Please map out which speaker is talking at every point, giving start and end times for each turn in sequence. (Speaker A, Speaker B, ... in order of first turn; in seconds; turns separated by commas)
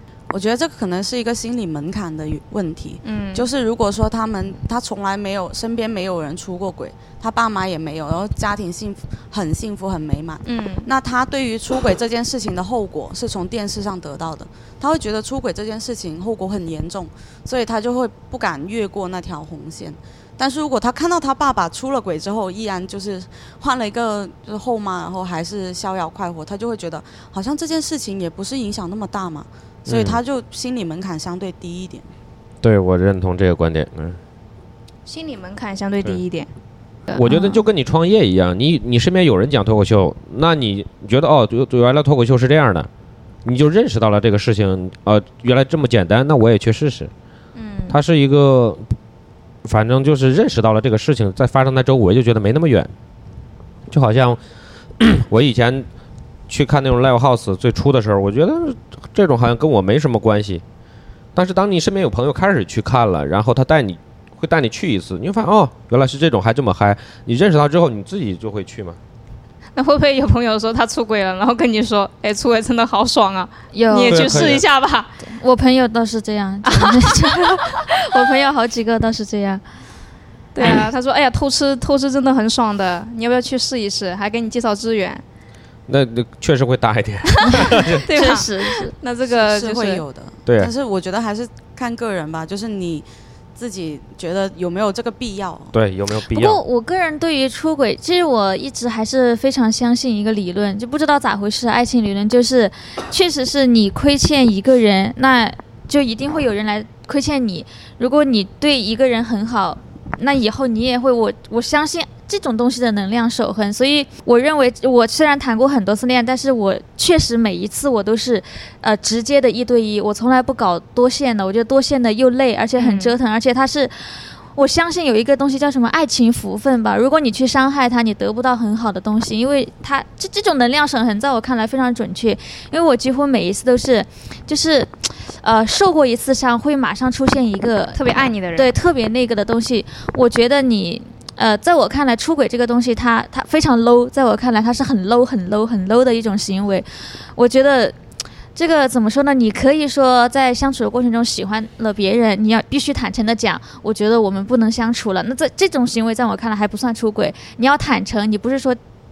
Speaker A: 0.3-32.1, Speaker B: 3.0-3.5, Speaker B: 10.4-10.9, Speaker C: 29.9-30.2, Speaker C: 32.6-34.2, Speaker B: 35.1-36.5, Speaker C: 37.1-42.9, Speaker D: 37.2-37.6, Speaker C: 43.5-47.1, Speaker B: 47.5-48.0, Speaker C: 47.9-48.8, Speaker C: 49.6-52.9, Speaker C: 53.9-54.4, Speaker C: 55.0-55.9, Speaker C: 56.5-60.6, Speaker C: 61.4-69.0, Speaker B: 69.8-75.1, Speaker D: 73.7-74.5, Speaker C: 74.1-74.7, Speaker D: 75.2-79.6, Speaker B: 76.7-77.6, Speaker B: 80.5-85.2, Speaker C: 85.9-88.0, Speaker B: 87.5-90.0, Speaker D: 88.1-88.9, Speaker A: 89.3-95.7, Speaker C: 90.5-90.7, Speaker C: 95.7-96.6, Speaker D: 96.3-148.0, Speaker B: 122.8-123.1, Speaker B: 137.9-138.7, Speaker D: 148.6-158.8